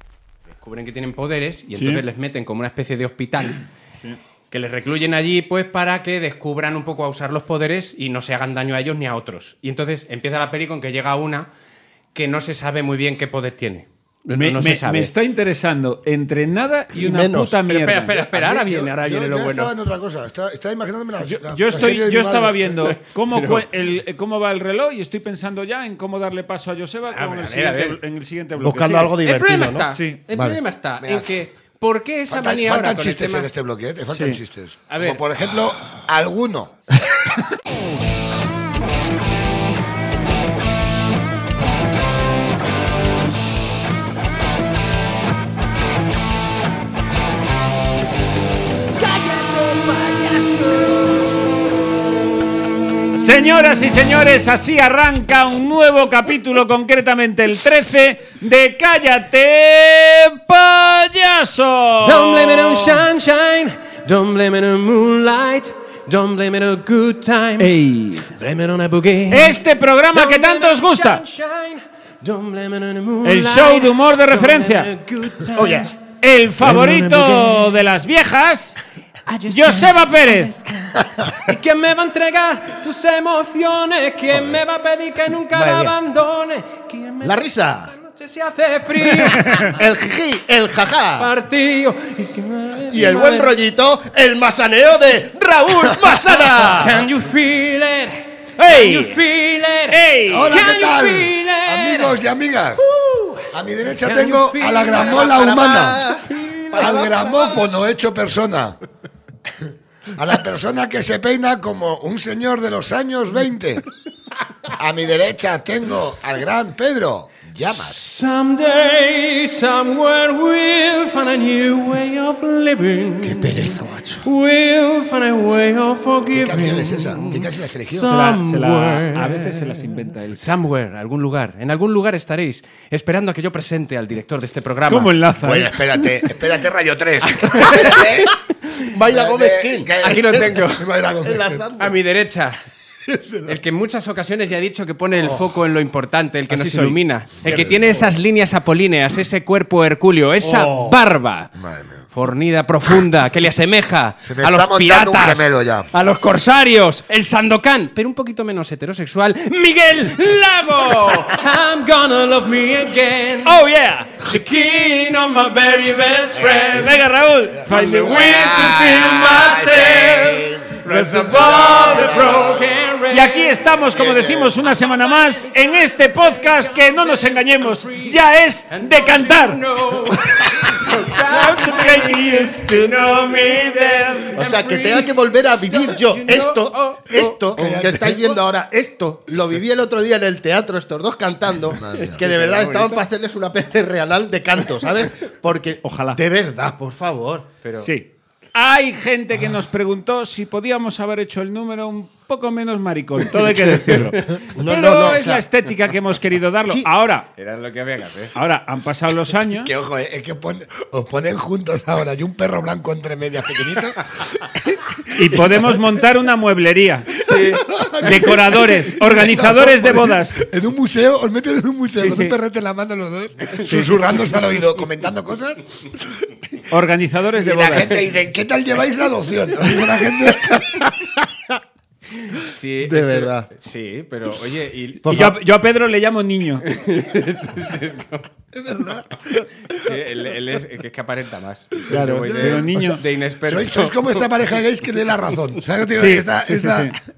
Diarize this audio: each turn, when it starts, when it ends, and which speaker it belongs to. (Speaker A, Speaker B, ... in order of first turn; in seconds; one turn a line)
Speaker A: 0.6-3.6
Speaker B: 1.7-2.0
Speaker A: 4.5-11.5
Speaker A: 12.1-15.1
Speaker B: 14.3-18.2
Speaker C: 16.9-17.6
Speaker A: 17.7-19.7
Speaker D: 18.3-22.7
Speaker B: 21.2-29.2
Speaker A: 22.8-23.7
Speaker A: 27.1-28.0
Speaker C: 28.6-30.6
Speaker A: 29.2-33.5
Speaker B: 29.9-30.2
Speaker D: 31.0-31.4
Speaker D: 32.3-36.8
Speaker B: 34.1-34.4
Speaker A: 34.9-35.2
Speaker A: 49.0-51.2
Speaker B: 53.2-63.0
Speaker A: 62.0-69.6
Speaker B: 67.6-68.3
Speaker B: 69.3-71.2
Speaker A: 70.1-76.0
Speaker B: 73.2-74.9
Speaker C: 75.6-75.9
Speaker B: 76.2-78.8
Speaker A: 76.6-77.8
Speaker A: 79.3-87.4
Speaker B: 79.5-80.5
Speaker C: 85.5-86.0
Speaker C: 87.2-87.9
Speaker A: 87.9-89.8
Speaker B: 89.2-89.7
Speaker C: 89.7-91.3
Speaker A: 91.2-93.6
Speaker C: 92.9-97.0
Speaker A: 96.6-102.2
Speaker B: 98.6-99.2
Speaker B: 99.9-100.6
Speaker D: 100.3-102.9
Speaker A: 102.8-107.6
Speaker D: 103.5-106.1
Speaker C: 106.0-107.1
Speaker D: 106.7-108.8
Speaker D: 110.1-113.8
Speaker D: 114.7-118.0
Speaker A: 117.6-135.1
Speaker D: 123.3-124.0
Speaker D: 126.3-128.2
Speaker B: 128.0-130.4
Speaker B: 134.9-135.7
Speaker D: 135.4-138.3
Speaker A: 137.2-138.9
Speaker C: 138.9-140.5
Speaker D: 139.1-141.7
Speaker A: 140.0-140.9
Speaker C: 141.2-141.9
Speaker A: 141.8-142.6
Speaker D: 143.1-143.6
Speaker A: 143.4-151.5
Speaker C: 145.2-145.5
Speaker B: 146.5-147.0
Speaker D: 147.5-148.0
Speaker C: 147.5-148.1
Speaker C: 150.4-151.0
Speaker D: 151.6-152.1
Speaker A: 152.1-163.6
Speaker D: 154.2-155.9
Speaker B: 163.4-164.3
Speaker A: 164.2-167.0
Speaker D: 166.4-166.7
Speaker B: 166.7-168.9
Speaker D: 167.5-170.7
Speaker A: 167.7-173.7
Speaker B: 170.8-172.5
Speaker D: 171.7-172.8
Speaker B: 173.1-179.6
Speaker D: 173.9-174.6
Speaker A: 174.7-178.2
Speaker A: 178.7-187.3
Speaker B: 180.8-184.4
Speaker C: 184.3-197.5
Speaker D: 187.1-188.4
Speaker D: 191.7-192.2
Speaker A: 191.9-193.1
Speaker B: 195.8-196.2
Speaker A: 197.6-197.9
Speaker B: 197.8-207.3
Speaker C: 204.5-205.4
Speaker A: 207.4-208.3
Speaker B: 208.3-209.7
Speaker D: 209.5-215.8
Speaker B: 215.2-217.2
Speaker A: 217.2-218.9
Speaker D: 217.3-226.3
Speaker B: 218.0-220.4
Speaker B: 222.0-222.4
Speaker A: 223.4-223.8
Speaker B: 223.7-224.0
Speaker B: 226.7-228.0
Speaker D: 227.4-230.8
Speaker A: 232.2-235.3
Speaker C: 232.8-233.5
Speaker C: 235.0-235.3
Speaker B: 235.0-236.7
Speaker A: 236.7-238.3
Speaker D: 238.5-239.1
Speaker A: 239.7-244.3
Speaker B: 241.9-243.0
Speaker D: 241.9-242.7
Speaker D: 243.4-246.9
Speaker B: 245.9-246.9